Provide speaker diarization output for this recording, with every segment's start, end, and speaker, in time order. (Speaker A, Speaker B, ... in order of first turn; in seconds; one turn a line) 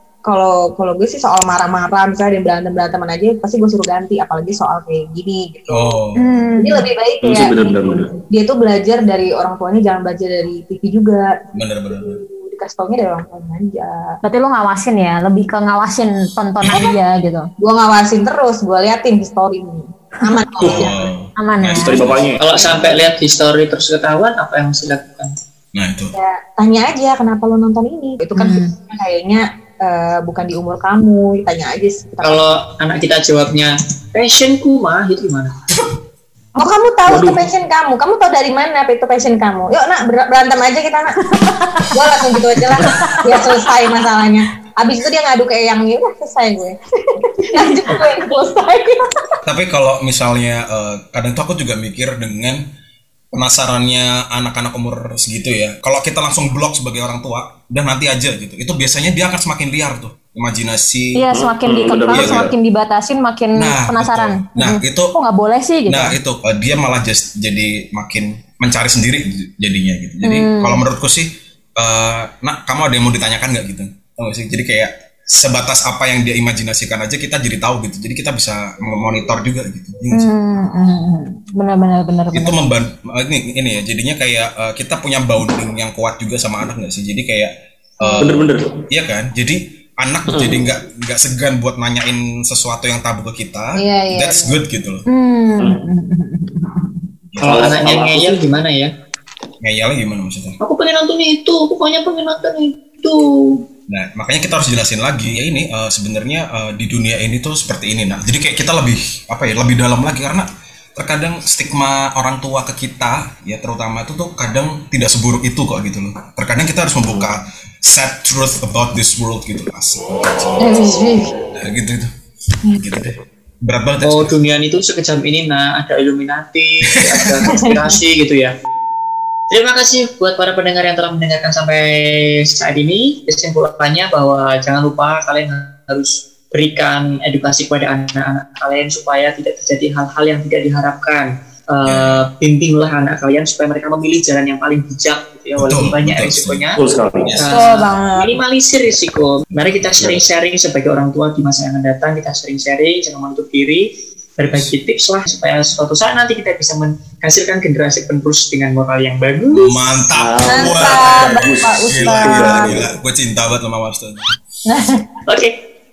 Speaker A: 0.3-6.0
Speaker B: 5.7-6.4
Speaker C: 6.2-6.9
Speaker A: 6.6-11.3
Speaker D: 7.2-8.1
Speaker B: 11.6-12.2
Speaker A: 11.9-14.2
Speaker C: 14.2-17.5
Speaker A: 17.6-21.0
Speaker C: 20.3-20.9
Speaker B: 20.6-22.3
Speaker C: 21.4-22.0
Speaker D: 21.8-22.4
Speaker E: 22.4-25.3
Speaker B: 25.7-26.1
Speaker A: 26.1-32.5
Speaker C: 28.4-28.7
Speaker E: 32.2-35.5
Speaker A: 36.6-41.2
Speaker D: 37.1-37.4
Speaker C: 41.2-43.3
Speaker A: 41.9-46.8
Speaker C: 47.2-48.5
Speaker A: 47.5-49.2
Speaker B: 49.5-52.6
Speaker B: 53.3-61.3
Speaker C: 61.1-66.2
Speaker D: 61.3-62.5
Speaker B: 62.1-62.5
Speaker B: 63.6-65.2
Speaker B: 65.9-80.3
Speaker C: 70.2-70.8
Speaker C: 80.1-82.7
Speaker B: 82.3-87.5
Speaker A: 88.0-88.5
Speaker C: 88.0-88.4
Speaker D: 88.2-88.8
Speaker B: 88.9-95.0
Speaker D: 90.3-90.7
Speaker A: 93.8-94.6
Speaker C: 95.1-97.2
Speaker B: 97.3-97.8
Speaker D: 97.4-98.4
Speaker E: 97.4-98.9
Speaker B: 99.6-100.6
Speaker E: 100.6-103.2
Speaker B: 103.9-122.1
Speaker A: 120.6-121.3
Speaker B: 122.7-124.4
Speaker E: 124.0-128.5
Speaker E: 129.5-146.8
Speaker B: 141.8-142.3
Speaker B: 145.6-146.6
Speaker D: 146.8-147.3
Speaker B: 147.2-147.6
Speaker E: 147.3-153.9
Speaker A: 147.5-148.4
Speaker B: 149.7-150.2
Speaker E: 154.4-159.8
Speaker B: 159.5-164.3
Speaker D: 160.2-162.9
Speaker A: 160.5-162.8
Speaker A: 164.7-165.0
Speaker E: 165.3-165.5